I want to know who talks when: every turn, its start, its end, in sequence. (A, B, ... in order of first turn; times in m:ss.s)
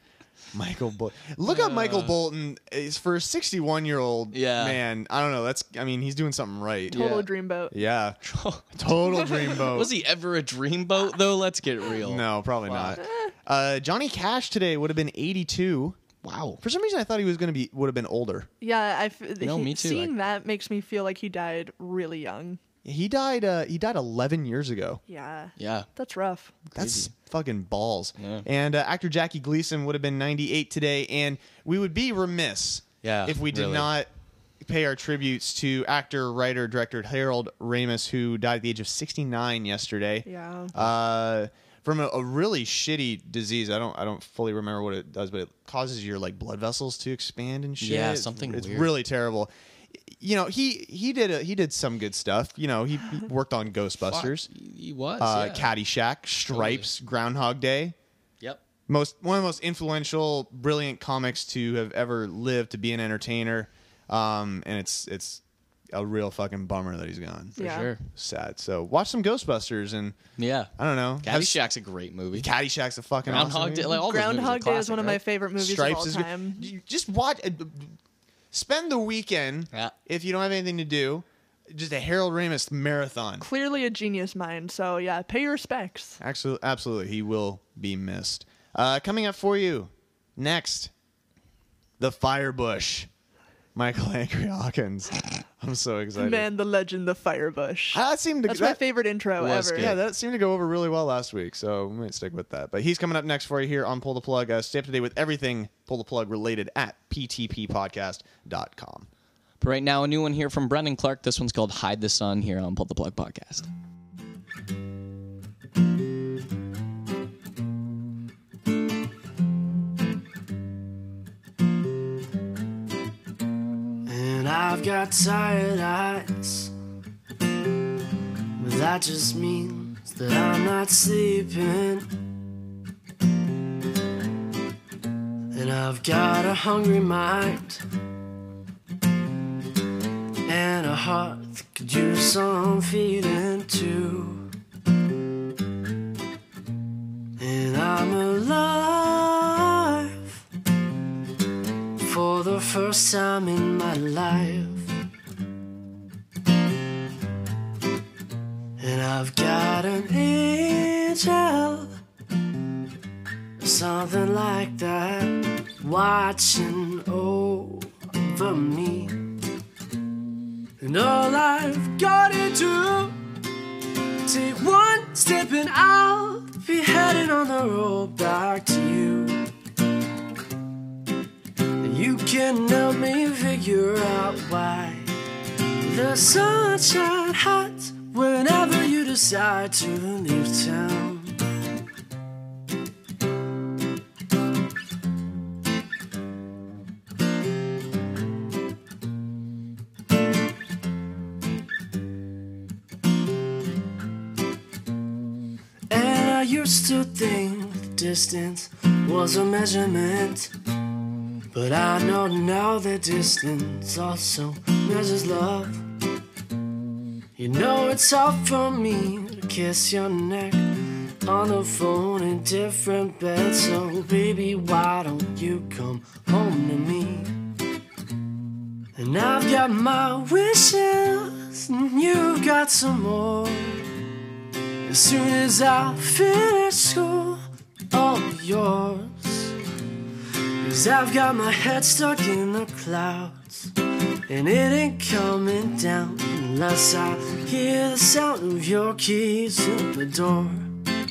0:00.5-0:07.1 A
0:01.4-0:02.2 B
0:04.3-0:04.8 B
0:06.9-0:07.3 B
0:06.9-0:07.7 C
0:07.7-0:08.2 A
0:08.2-0:08.7 B
0:08.7-0:09.9 A
0:09.5-0:13.0 B
0:12.0-0:16.0 A
0:16.2-0:16.6 B
0:16.6-0:18.5 A
0:18.6-0:22.6 C
0:19.4-0:20.1 B
0:22.8-0:25.0 A
0:25.1-0:26.6 C
0:25.6-0:25.9 B
0:26.7-0:27.1 B
0:26.7-0:34.1 A
0:28.2-0:28.4 B
0:33.0-0:33.9 B
0:34.6-0:54.5 A
0:40.2-0:40.7 C
0:47.8-0:48.9 B
0:54.1-0:55.7 B
0:55.2-0:57.9 A
0:56.5-0:56.9 B
0:58.9-1:10.2 A
1:07.6-1:08.0 C
1:07.6-1:08.0 B
1:10.4-1:12.5 B
1:10.8-1:11.6 A
1:12.3-1:14.0 A
1:13.2-1:15.2 B
1:14.0-1:16.7 C
1:15.6-1:17.9 A
1:18.5-1:23.5 A
1:23.4-1:26.2 C
1:26.2-1:30.9 A
1:32.0-1:33.1 A
1:33.7-1:36.5 A
1:36.2-1:40.0 C
1:37.9-1:38.8 A
1:39.4-1:40.0 B
1:39.7-1:49.1 A
1:49.6-1:53.7 B
2:04.0-2:06.7 D
2:08.6-2:12.1 D
2:15.5-2:17.8 D
2:20.4-2:24.4 D
2:27.4-2:30.2 D
2:32.0-2:34.9 D
2:38.8-2:41.9 D
2:43.6-2:49.2 D
2:50.8-2:53.2 D
2:54.2-2:59.4 D
3:01.8-3:05.1 D
3:05.8-3:11.4 D
3:25.9-3:30.5 D
3:31.5-3:35.8 D
3:37.4-3:40.7 D
3:41.2-3:47.3 D
3:49.0-3:53.8 D
3:54.8-3:57.4 D
3:57.9-3:59.5 D
4:00.6-4:03.7 D
4:04.3-4:10.7 D